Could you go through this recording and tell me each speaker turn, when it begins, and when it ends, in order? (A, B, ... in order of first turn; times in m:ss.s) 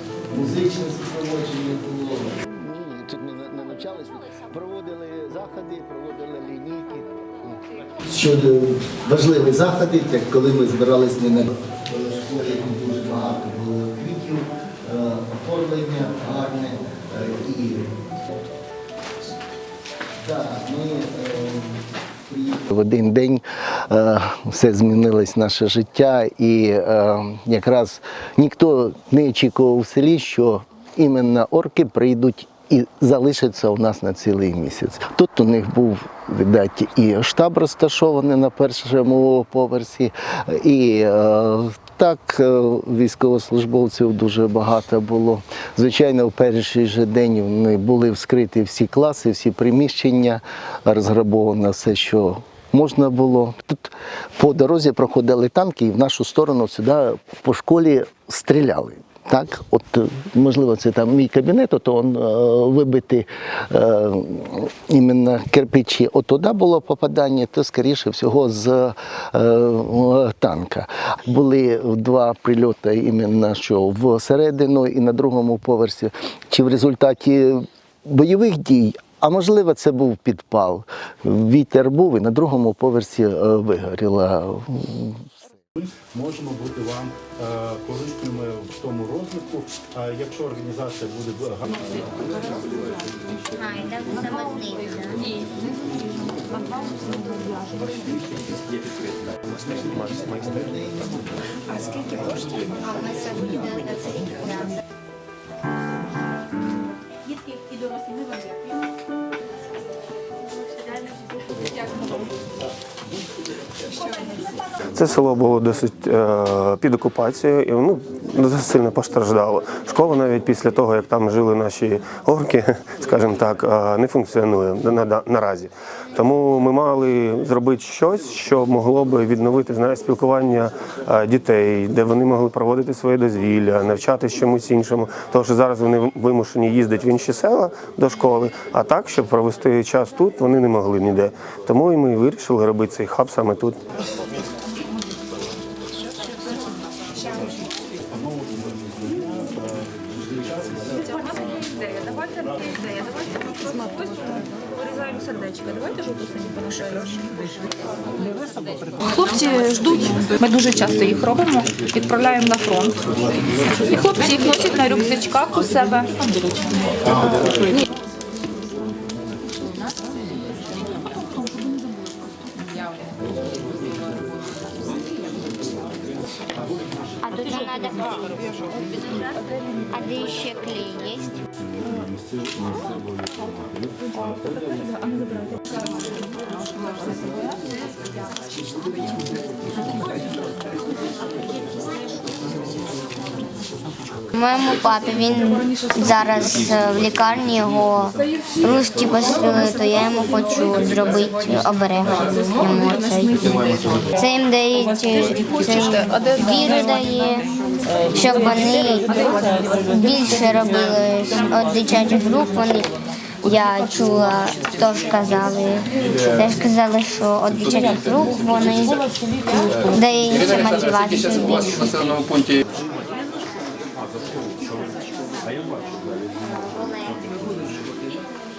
0:00.3-0:18.0 A
0:20.2-1:25.4 A
1:25.8-1:31.9 B
1:33.6-1:35.2 C
1:37.7-1:38.6 B
1:39.5-1:41.0 D
1:42.9-1:44.7 C
1:54.9-2:23.8 D
2:28.1-2:31.1 B
2:39.2-2:43.0 E
2:43.8-2:46.6 E
2:57.2-2:59.2 C
2:59.9-3:01.3 C
3:01.6-3:05.2 B
3:14.3-3:23.4 C
3:24.1-3:27.5 C
3:28.1-3:29.2 C
3:29.7-3:32.9 C
3:33.4-3:42.5 C
3:46.7-3:47.2 C